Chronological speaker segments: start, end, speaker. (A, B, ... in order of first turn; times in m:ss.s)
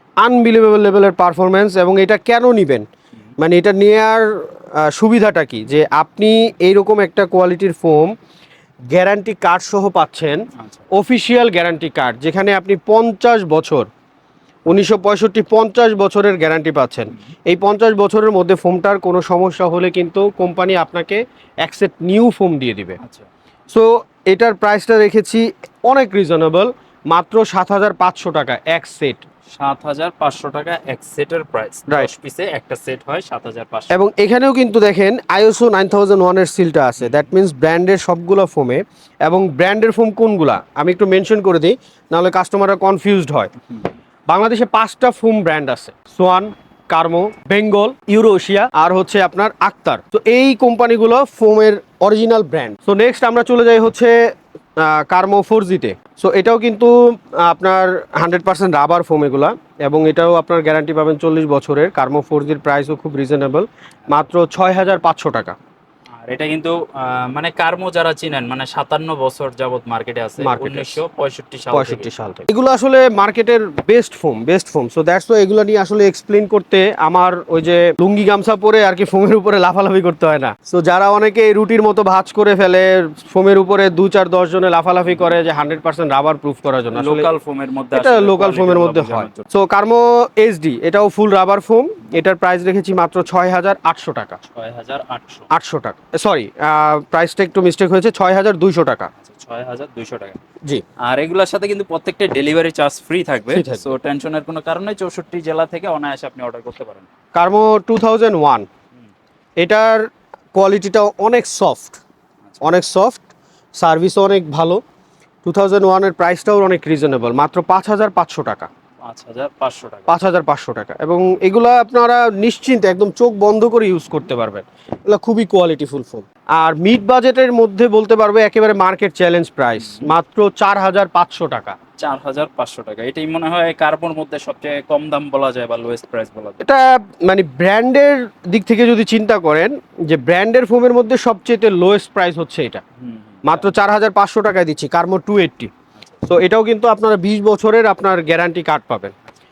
0:00.2-0:02.8 A
0:03.4-0:08.1 A
0:08.9-0:13.9 A
0:10.6-0:10.9 B
0:14.7-0:23.0 A
0:23.0-0:23.3 B
0:23.7-0:29.2 A
0:29.5-0:34.0 B
0:33.9-0:43.5 A
0:37.0-0:37.3 B
0:44.3-1:05.6 A
1:06.2-1:12.5 B
1:10.4-1:11.0 A
1:11.7-1:27.3 A
1:26.9-1:29.4 B
1:27.9-1:34.4 A
1:34.4-1:35.5 B
1:35.5-1:39.1 A
1:39.2-1:40.4 B
1:41.0-1:47.1 B
1:43.5-1:43.9 A
1:47.3-1:48.6 A
1:49.6-1:50.0 A
1:50.5-1:52.0 A
1:52.5-1:52.8 B
1:52.6-1:54.8 A
1:55.4-1:58.7 A
1:59.0-2:00.1 B
2:00.1-2:11.8 A
2:09.8-2:10.1 B
2:12.0-2:16.6 B
2:16.6-2:22.8 A
2:23.0-2:23.8 B
2:23.4-2:25.7 A
2:26.2-2:29.1 A